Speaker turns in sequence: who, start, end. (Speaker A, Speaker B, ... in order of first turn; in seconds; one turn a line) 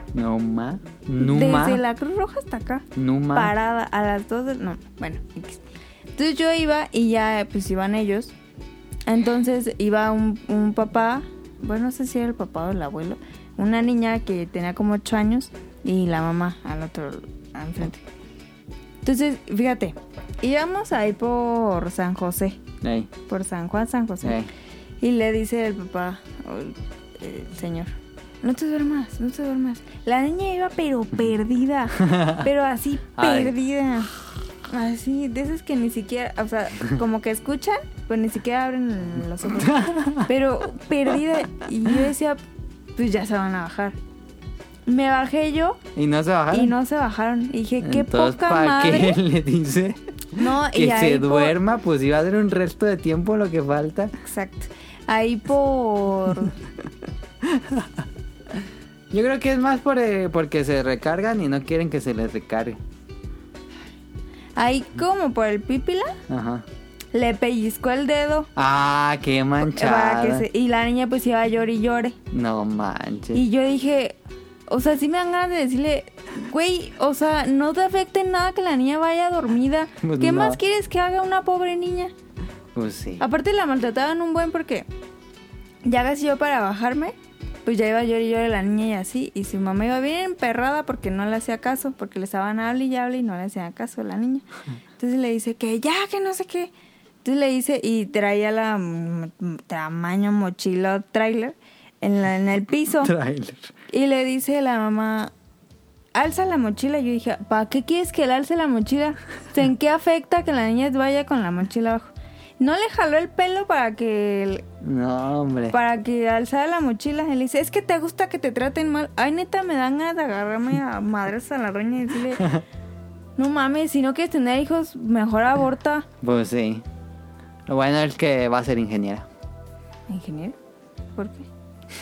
Speaker A: 0.1-1.8
Speaker B: 1.2-8.3
Speaker A: 3.0-3.5
Speaker B: 9.1-18.0
Speaker B: 19.0-22.6
Speaker A: 22.8-23.1
Speaker B: 23.3-24.4
Speaker A: 24.2-24.5
Speaker B: 25.0-34.1
Speaker A: 32.0-32.4
Speaker A: 33.2-33.5
Speaker B: 34.7-42.4
Speaker A: 39.6-40.3
Speaker B: 43.0-44.0
Speaker B: 44.9-45.8
Speaker A: 46.0-46.7
Speaker B: 46.5-49.2
Speaker A: 47.8-54.1
Speaker B: 50.3-51.6
Speaker B: 54.2-56.6
Speaker A: 57.4-62.8
Speaker B: 64.6-66.2
Speaker A: 66.3-66.7
Speaker B: 67.1-68.5
Speaker A: 68.6-70.5
Speaker B: 69.6-72.2
Speaker A: 72.3-73.4
Speaker B: 73.3-74.2
Speaker B: 74.7-82.1
Speaker A: 80.0-80.6
Speaker A: 82.7-83.2
Speaker B: 83.2-84.9
Speaker B: 85.8-94.5
Speaker B: 95.0-96.7
Speaker B: 97.2-103.1
Speaker A: 103.0-103.7
Speaker B: 103.9-105.3
Speaker B: 106.2-114.6
Speaker A: 114.8-115.8
Speaker B: 115.7-122.5
Speaker B: 123.4-126.1
Speaker A: 126.2-126.8
Speaker A: 127.7-129.3
Speaker B: 130.1-130.6
Speaker B: 131.2-131.5